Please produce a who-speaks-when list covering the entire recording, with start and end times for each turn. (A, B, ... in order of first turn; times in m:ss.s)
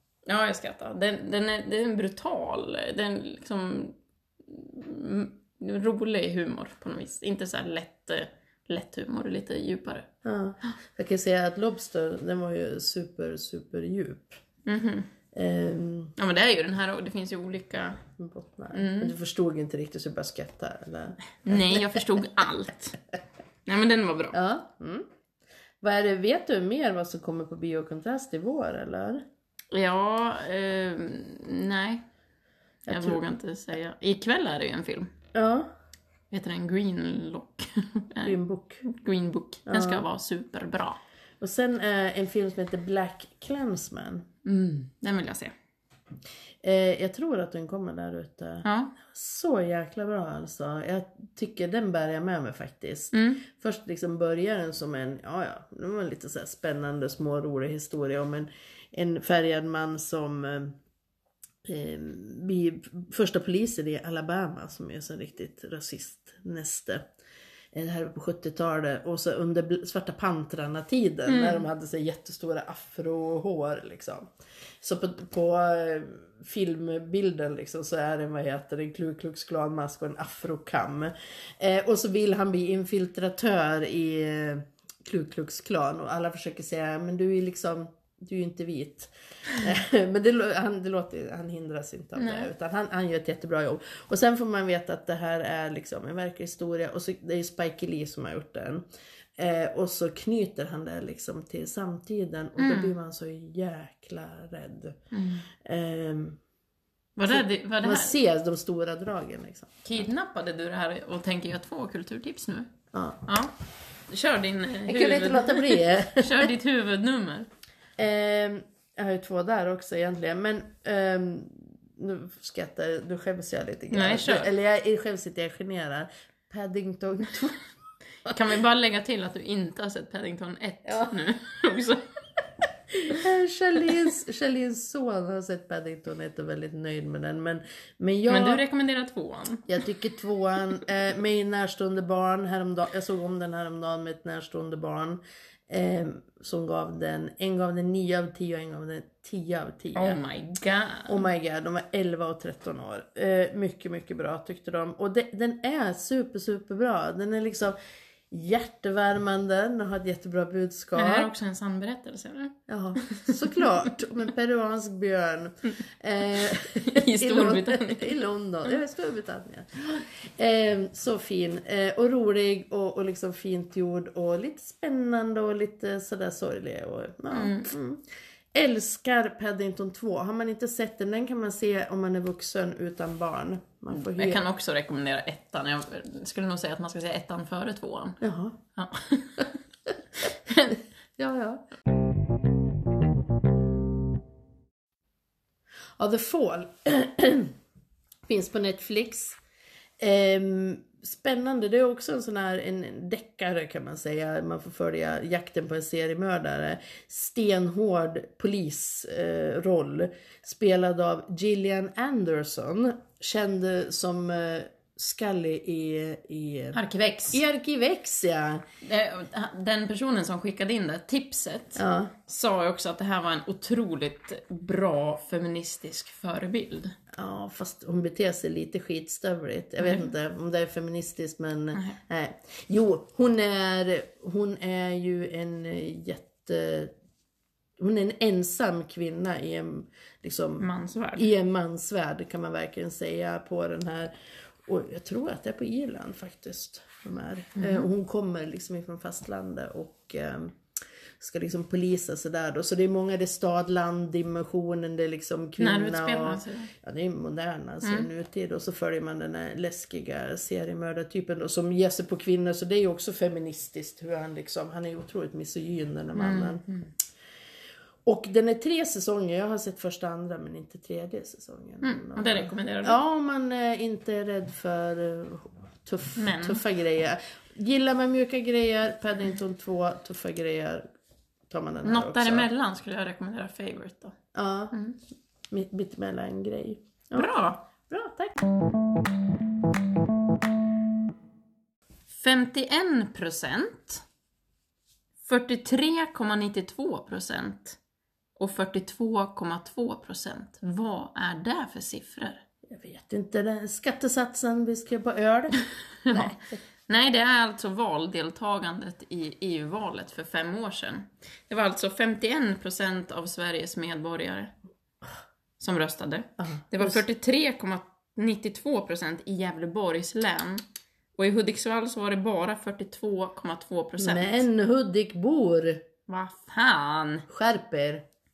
0:00.3-0:10.1 A
0:10.2-0:14.4 B
0:14.7-0:15.1 A
0:15.3-0:16.1 B
0:16.2-0:18.0 A
0:18.2-0:22.0 B
0:18.7-0:19.1 A
0:21.4-0:23.0 A
0:23.7-0:24.4 A
0:24.3-0:25.1 B
0:25.8-0:29.2 B
0:29.7-0:32.1 A
0:32.9-0:33.2 B
0:32.9-0:35.1 A
0:35.3-0:35.7 B
0:36.3-0:41.0 A
0:38.2-0:38.8 B
0:39.7-0:40.0 B
0:41.4-0:44.3 B
0:44.4-0:45.5 A
0:46.6-1:00.8 B
0:48.6-0:49.0 A
0:53.1-0:53.4 A
1:01.6-1:07.1 B
1:07.7-1:14.3 B
1:11.3-1:11.6 A
1:14.8-1:38.8 B
1:32.2-1:32.5 A
1:39.4-1:45.0 B
1:42.6-1:43.0 A
1:45.1-1:45.5 A
1:45.6-1:46.4 B
1:47.2-1:48.2 A
1:47.3-1:50.0 B
1:49.8-1:52.7 A
1:52.9-1:53.2 B
1:53.2-1:53.5 A
1:54.1-1:57.5 A
1:54.9-1:56.5 B
1:58.0-2:07.6 B
2:03.9-2:04.5 A
2:08.3-2:12.1 A
2:10.9-2:11.1 B
2:13.1-2:18.6 B
2:18.3-2:19.8 A
2:19.7-2:30.2 B
2:30.0-2:31.2 A
2:31.1-2:37.8 B
2:38.3-2:41.3 B
2:41.0-2:43.7 A
2:42.7-3:04.4 B
2:46.5-2:48.2 A
2:57.3-2:57.7 A
3:03.9-3:08.2 A
3:08.2-3:08.6 B
3:08.8-3:09.6 A
3:10.4-3:10.8 A
3:11.2-3:11.7 B
3:16.0-3:17.5 B
3:18.3-3:19.4 B
3:20.0-3:36.8 B
3:36.7-3:37.4 A
3:37.3-3:38.6 B
3:38.8-3:47.0 A
3:41.8-3:42.1 B
3:47.1-3:56.9 B
3:49.8-3:50.1 A
3:57.8-4:04.1 B
4:00.6-4:01.3 A
4:04.6-4:10.6 B
4:07.6-4:07.9 A
4:11.2-4:26.6 B
4:15.6-4:16.7 A
4:17.8-4:18.1 A
4:26.2-4:26.9 A
4:28.0-4:40.9 B
4:31.8-4:33.0 A
4:36.2-4:36.6 A
4:41.5-4:42.5 B
4:41.8-4:44.2 A
4:44.3-4:44.8 B
4:44.7-4:45.0 A
4:45.5-4:48.4 B
4:47.1-4:47.6 A
4:52.1-4:54.0 A
4:55.2-4:57.8 A
4:58.4-5:02.4 A
5:02.7-5:06.6 B
5:06.0-5:14.5 A
5:15.6-5:20.6 A
5:16.4-5:17.0 B
5:21.2-5:24.4 A
5:24.0-5:25.8 B
5:26.1-5:27.3 A
5:27.3-5:28.0 B